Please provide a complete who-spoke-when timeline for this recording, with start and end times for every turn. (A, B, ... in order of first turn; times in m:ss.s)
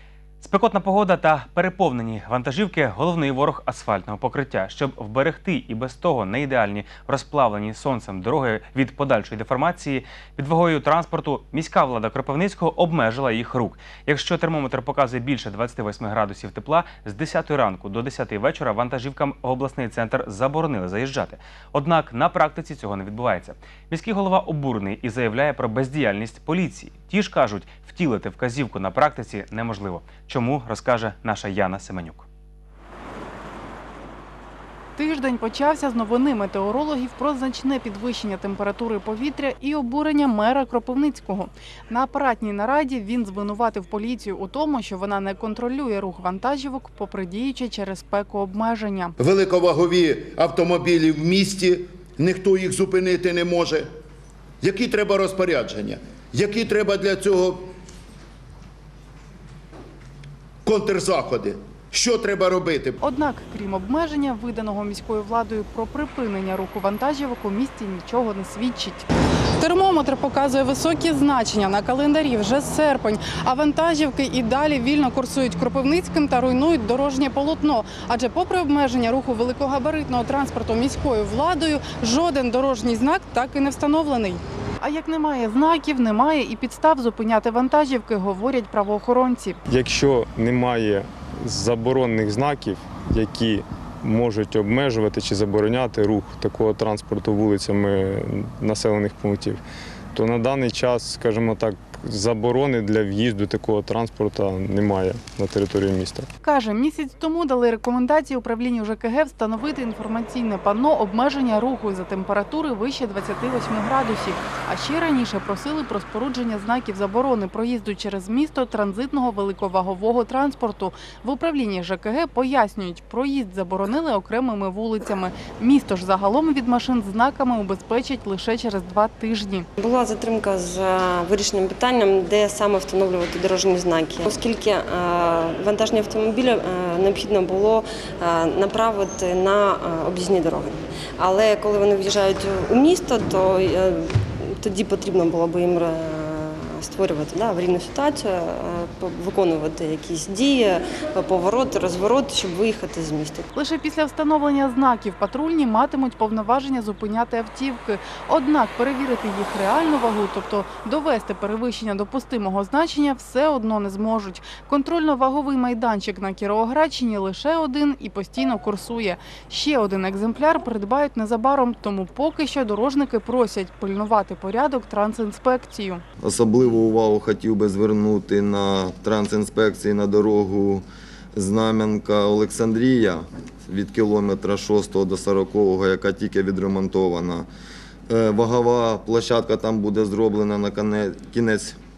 0:00.4-0:32.3 A
0:35.0-0:49.2 B
0:49.2-0:53.9 C
0:54.6-0:57.7 C
1:00.6-1:03.0 C
1:03.0-1:09.1 B
1:09.6-1:29.6 B
1:29.7-1:39.6 D
1:40.1-1:46.3 D
1:46.4-2:09.7 B
2:09.8-2:33.5 E
2:33.5-2:56.0 B
2:56.2-3:07.5 F
3:08.1-3:11.8 F